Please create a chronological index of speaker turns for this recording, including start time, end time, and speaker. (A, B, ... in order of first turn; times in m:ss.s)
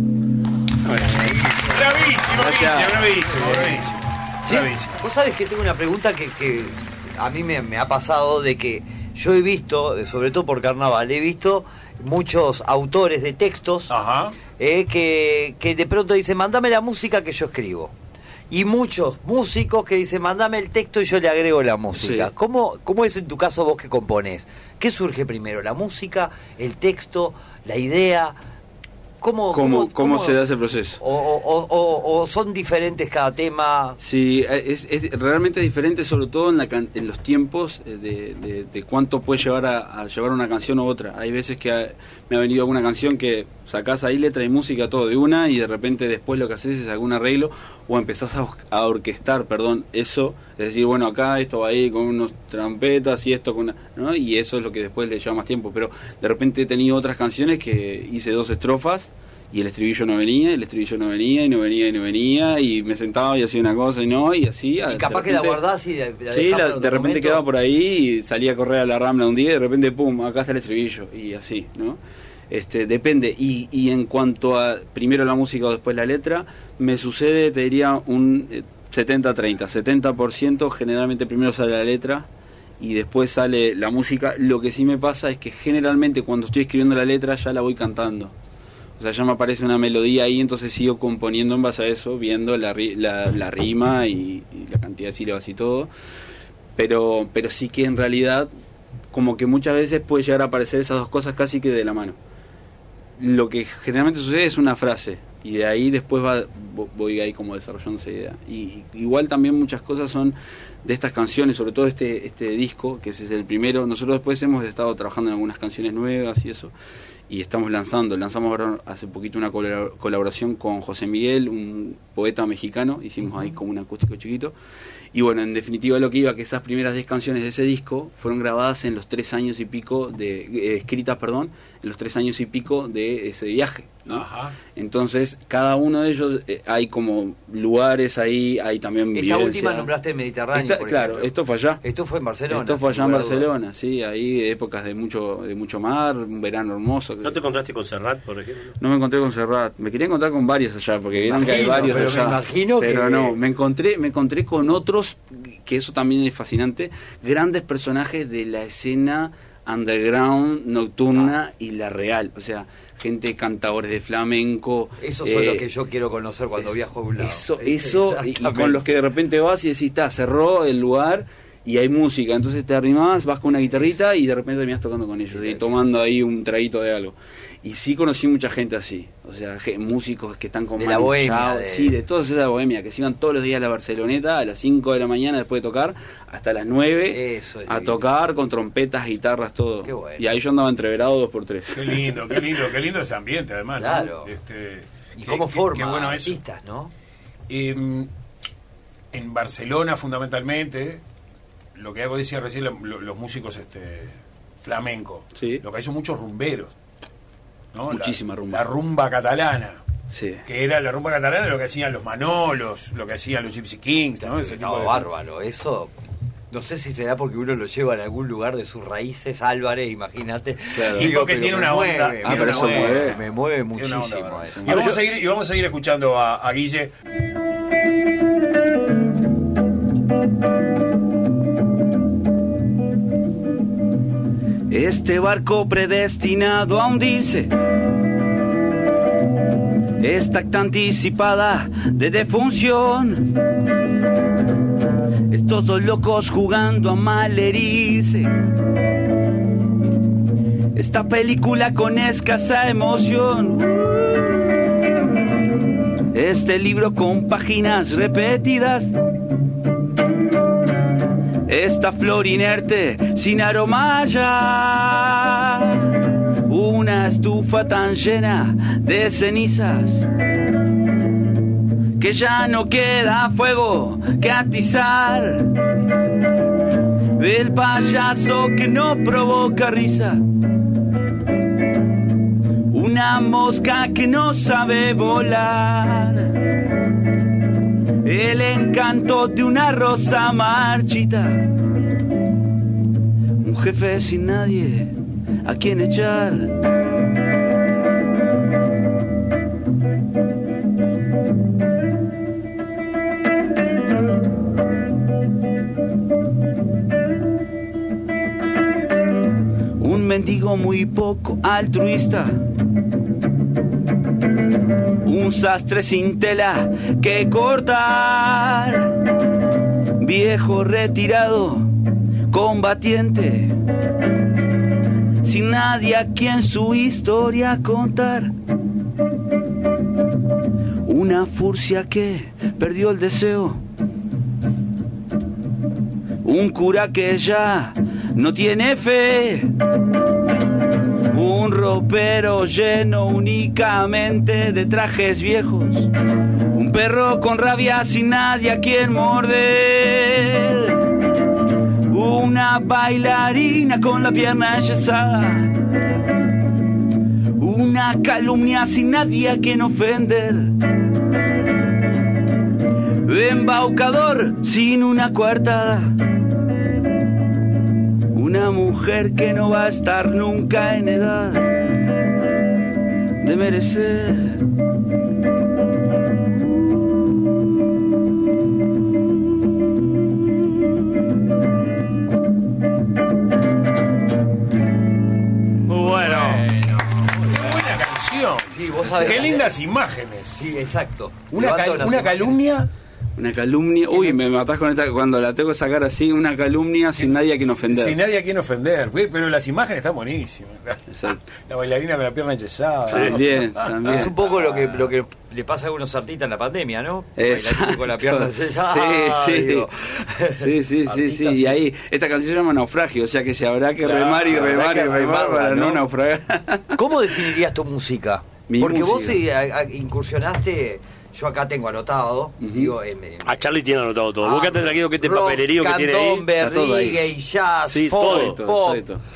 0:01.1-0:01.6 A
0:01.6-0:05.0 B
0:02.3-0:03.1 C
0:03.6-0:03.8 A
0:04.4-0:13.9 A
0:13.9-0:14.4 B
0:14.6-0:17.9 A
0:18.5-0:28.4 A
0:22.0-0:22.3 C
0:29.2-0:30.4 A
0:29.5-0:31.0 C
0:31.0-0:34.0 A
0:34.0-1:05.6 C
1:04.9-1:07.4 A
1:06.3-1:22.3 C
1:22.8-1:28.3 C
1:29.0-1:35.9 C
1:36.8-1:38.5 C
1:39.1-1:42.2 C
1:43.2-1:56.7 C
1:57.3-2:04.5 C
2:05.1-2:19.9 C
2:14.1-2:14.6 B
2:19.1-2:21.3 A
2:20.5-2:21.8 C
2:21.8-2:23.5 A
2:22.5-2:27.4 C
2:27.2-2:28.8 D
2:28.8-2:45.7 C
2:31.2-2:33.4 A
2:45.0-2:48.8 A
2:47.2-3:12.0 C
2:55.3-2:55.6 A
3:00.8-3:02.0 A
3:07.1-3:08.0 A
3:09.8-3:10.3 A
3:11.7-3:16.4 B
3:13.8-3:14.3 A
3:15.2-3:16.9 A
3:17.5-3:18.1 B
3:19.1-3:21.0 B
3:21.8-3:26.7 B
3:25.4-3:25.6 C
3:27.7-3:29.8 B
3:27.9-3:28.6 C
3:30.1-3:30.4 C
3:30.4-3:35.1 B
3:34.2-3:35.9 A
3:36.5-3:45.0 A
3:40.8-3:41.1 C
3:40.9-3:43.2 B
3:42.2-3:43.2 C
3:43.7-3:46.9 B
3:44.6-3:44.9 C
3:54.7-3:57.5 C
4:00.0-4:03.3 C
4:05.3-4:08.3 C
4:10.8-4:14.6 C
4:16.1-4:19.0 C
4:21.5-4:30.1 C
4:32.0-4:35.6 C
4:37.2-4:40.2 C
4:42.7-4:46.4 C
4:48.0-4:51.5 C
4:53.4-4:56.6 C
5:09.8-5:12.4 C
5:15.0-5:19.1 C
5:20.0-5:21.7 C
5:22.3-5:23.6 C
5:25.2-5:28.3 C
5:30.8-5:33.6 C
5:36.2-5:39.5 C
5:41.1-5:45.9 C
5:46.5-5:50.9 C
5:51.9-5:55.6 C
5:57.4-6:00.6 C
6:03.0-6:06.0 C
6:08.1-6:11.6 C
6:13.2-6:14.5 C
6:25.7-6:30.6 B
6:25.7-6:27.4 A
6:28.5-6:29.6 A
6:30.4-6:32.3 A
6:31.3-6:32.7 B
6:33.2-6:38.0 C
6:37.0-6:43.4 B
6:40.9-6:41.2 C
6:42.9-6:43.2 D
6:42.9-6:44.2 C
6:43.8-6:51.6 A
6:47.2-6:49.7 C
6:50.4-6:56.8 C
6:53.8-6:54.9 B
6:54.2-6:55.8 A
6:56.8-7:03.5 A
6:58.5-6:59.2 C
7:02.4-7:02.7 C
7:03.2-7:06.3 D
7:04.2-7:08.8 A
7:06.4-7:07.0 C
7:07.7-7:08.4 D
7:08.0-7:09.0 C